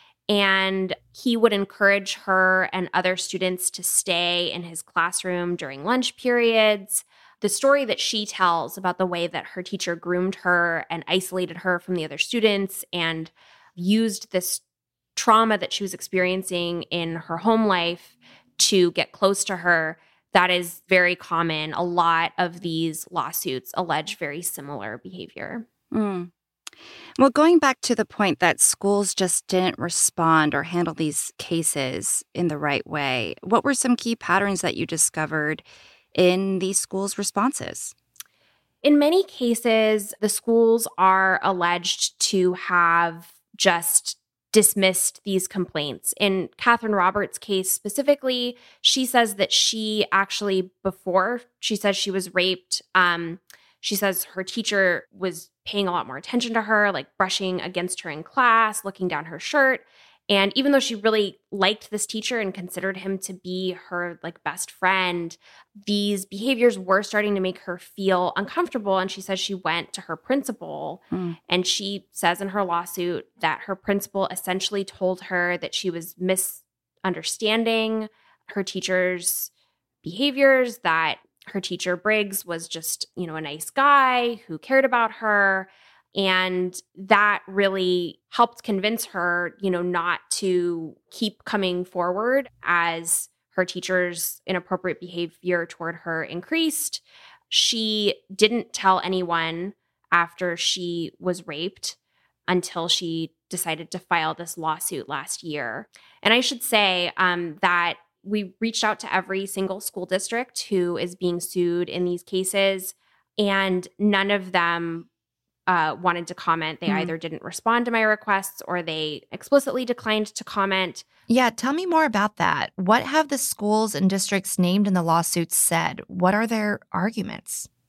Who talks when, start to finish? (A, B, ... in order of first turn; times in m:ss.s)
0:00.3-0:14.6 A
0:15.2-0:25.6 A
0:25.9-0:26.3 B
0:27.2-0:37.9 B
0:38.8-1:19.5 A
1:11.1-1:11.4 B
1:20.0-1:55.1 A
1:55.7-2:01.0 A
1:56.8-1:57.1 B
2:01.3-2:07.7 B